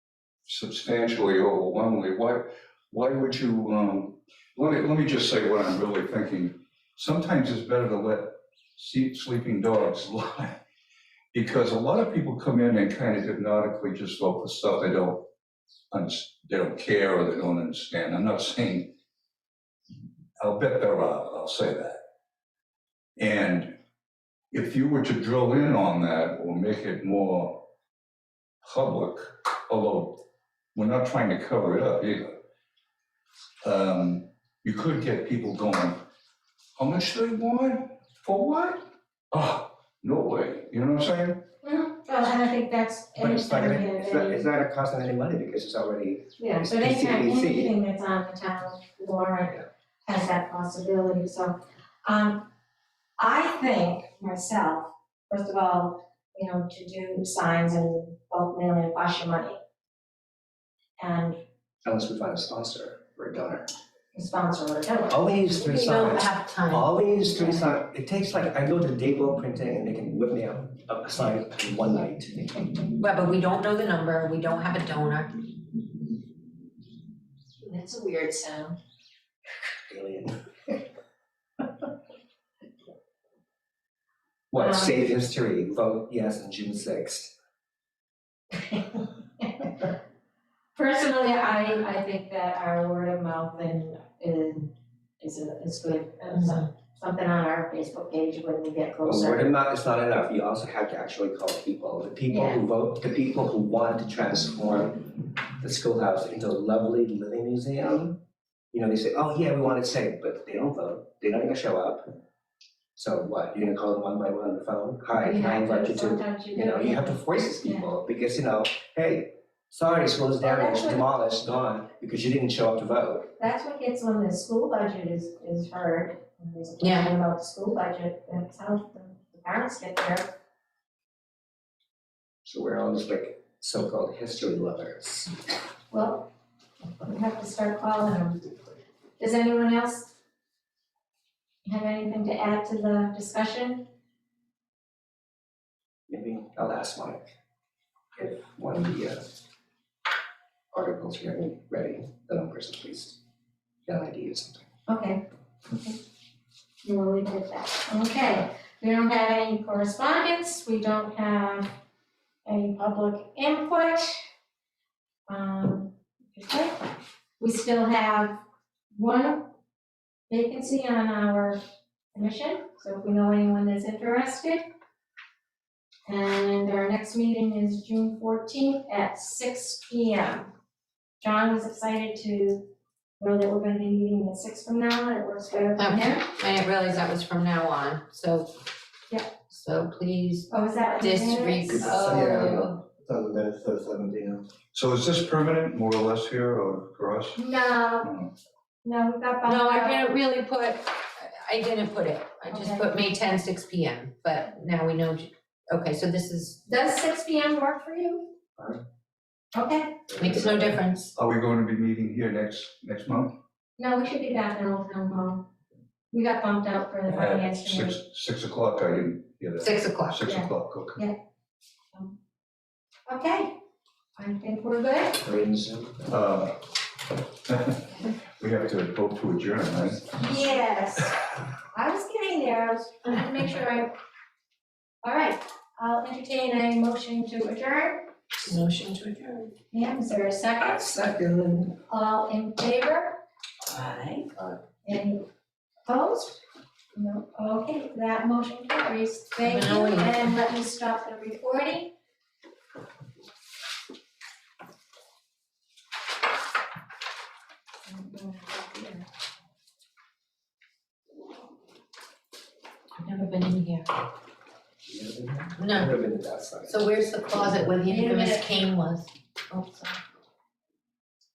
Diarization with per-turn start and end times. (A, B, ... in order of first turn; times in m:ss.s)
0:00.5-0:10.6 A
0:11.3-0:15.2 A
0:15.9-0:18.9 A
0:20.4-0:22.0 A
0:23.2-0:23.7 A
0:24.5-0:27.6 A
0:28.6-0:30.2 A
0:30.7-0:32.4 A
0:33.6-0:36.0 A
0:36.8-0:41.4 A
0:41.6-0:44.5 B
0:43.2-0:47.7 C
0:46.4-0:52.5 B
0:53.2-0:59.6 B
1:01.0-1:01.4 B
1:01.8-1:03.7 C
1:04.1-1:05.2 B
1:05.1-1:12.8 C
1:05.5-1:07.7 D
1:13.0-1:15.4 D
1:17.6-1:18.8 B
1:19.9-1:20.4 C
1:24.5-1:27.3 C
1:24.6-1:25.0 B
1:30.8-1:39.5 B
1:39.0-1:45.0 C
1:45.6-1:48.2 C
1:48.7-1:52.1 C
1:53.0-2:03.3 C
1:55.2-1:57.9 B
2:00.4-2:01.0 B
2:03.4-2:10.3 B
2:06.8-2:07.1 D
2:12.4-2:15.3 C
2:15.9-2:16.2 B
2:17.0-2:18.5 B
2:19.2-2:20.1 B
2:21.6-2:23.8 B
2:26.1-2:27.3 C
2:28.2-2:29.2 C
2:30.7-2:33.2 C
2:33.9-2:34.6 C
2:34.9-2:35.2 B
2:36.8-2:41.7 B
2:42.4-2:44.3 B
2:45.3-2:48.4 B
2:48.9-2:49.5 B
2:50.3-2:51.6 B
2:52.1-2:54.6 B
2:56.1-3:00.5 B
3:01.2-3:06.2 B
3:05.8-3:08.5 D
3:09.5-3:10.5 D
3:10.5-3:12.5 B
3:11.0-3:12.8 D
3:11.7-3:14.4 E
3:14.7-3:17.4 A
3:17.4-3:18.1 B
3:18.0-3:18.3 A
3:18.8-3:20.1 B
3:19.4-3:26.6 D
3:22.5-3:23.0 B
3:26.6-3:28.3 B
3:29.5-3:30.1 B
3:30.1-3:31.1 D
3:31.1-3:33.3 A
3:33.8-3:35.5 B
3:36.1-3:38.0 B
3:37.1-3:41.0 A
3:39.6-3:40.2 D
3:40.2-3:41.2 B
3:43.1-3:43.5 B
3:44.2-3:45.2 B
3:45.2-3:46.1 C
3:46.1-3:46.6 A
3:47.4-3:50.1 A
3:50.1-3:53.9 B
3:55.0-3:58.1 B
3:58.5-3:58.8 D
3:58.8-3:59.4 C
3:59.7-4:00.9 B
4:00.6-4:01.7 C
4:01.9-4:03.2 B
4:04.8-4:05.2 B
4:05.9-4:06.4 B
4:06.9-4:11.9 B
4:09.4-4:10.3 D
4:17.9-4:19.1 B
4:23.0-4:23.9 D
4:24.9-4:26.9 C
4:25.6-4:25.9 D
4:26.7-4:29.1 D
4:27.9-4:28.5 B
4:29.5-4:29.9 B